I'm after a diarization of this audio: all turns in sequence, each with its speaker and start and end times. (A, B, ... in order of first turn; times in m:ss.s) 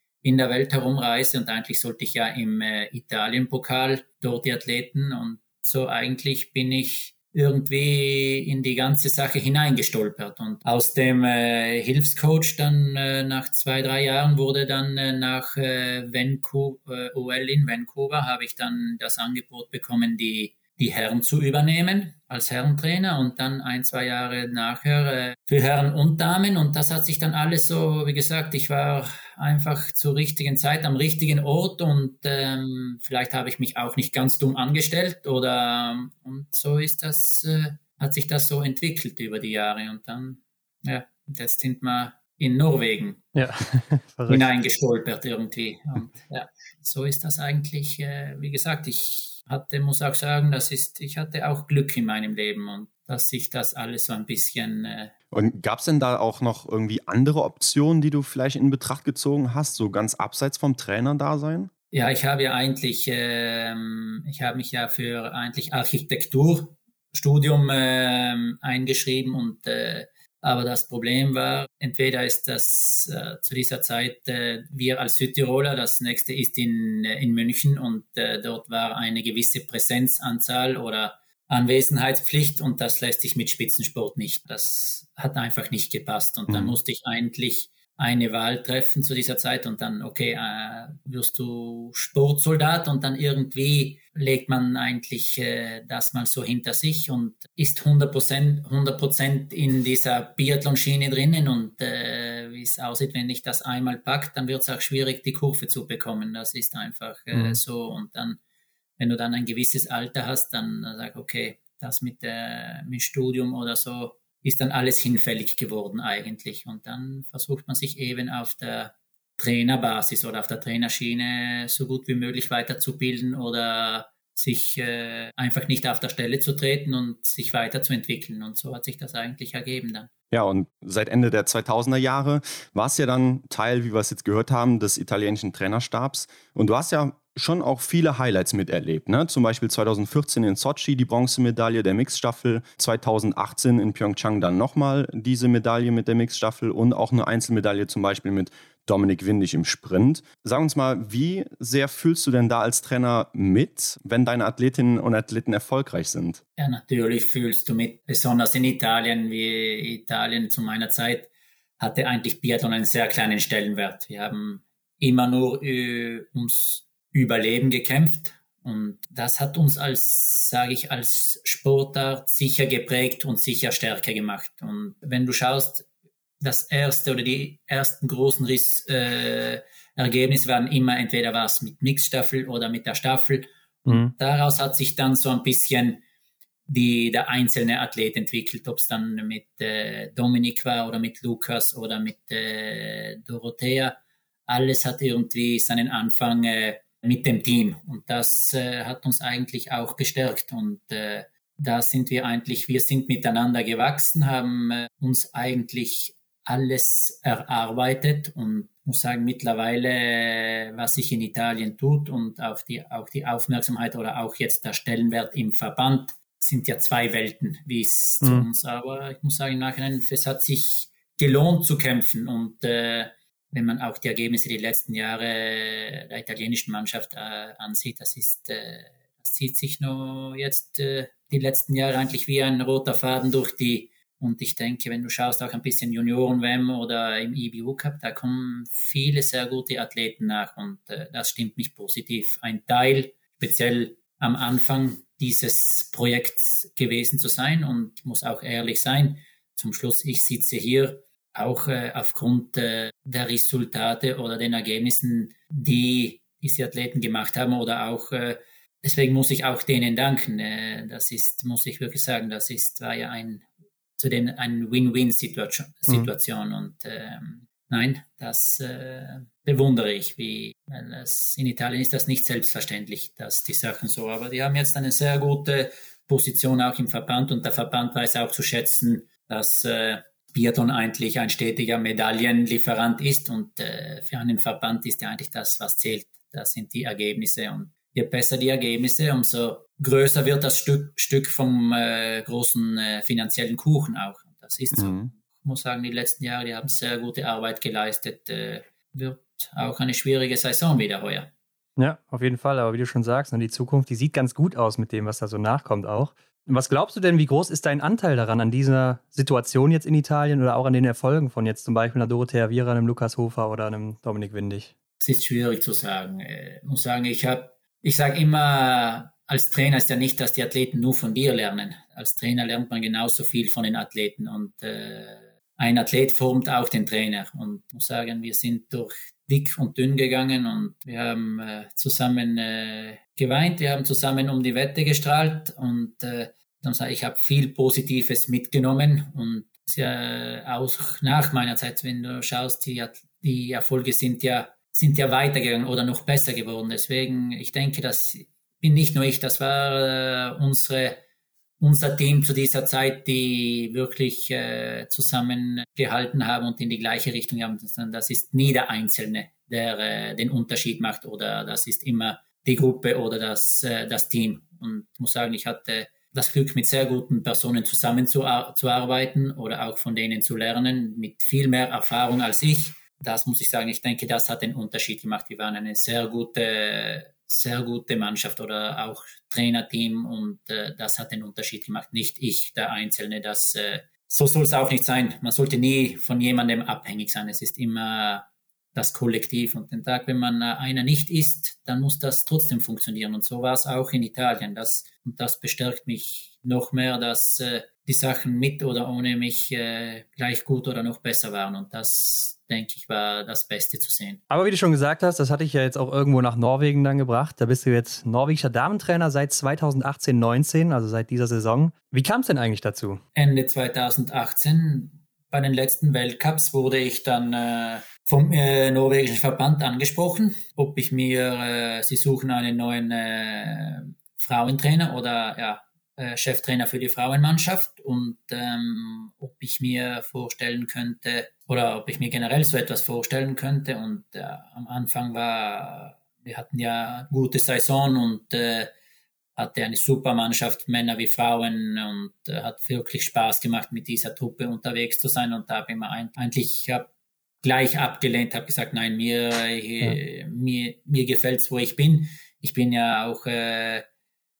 0:00.2-0:43.3 A
0:43.3-0:44.4 B
0:44.3-0:55.1 A
0:55.3-1:01.7 C
1:01.9-1:48.4 A
1:26.5-1:26.8 C
1:47.3-1:47.6 B
1:49.0-2:10.1 A
2:10.3-2:36.4 C
2:36.6-2:55.8 A
2:56.4-3:06.0 A
3:03.8-3:04.1 B
3:06.7-3:14.0 A
3:14.5-4:23.4 A
4:24.0-5:01.3 A
4:54.7-4:55.1 C
5:01.8-5:14.7 B
5:15.0-5:51.0 A
5:51.6-6:28.2 A
6:28.7-6:44.2 A
6:44.3-6:53.0 B
6:53.1-7:18.7 A
7:19.4-7:26.9 A
7:27.4-7:33.8 A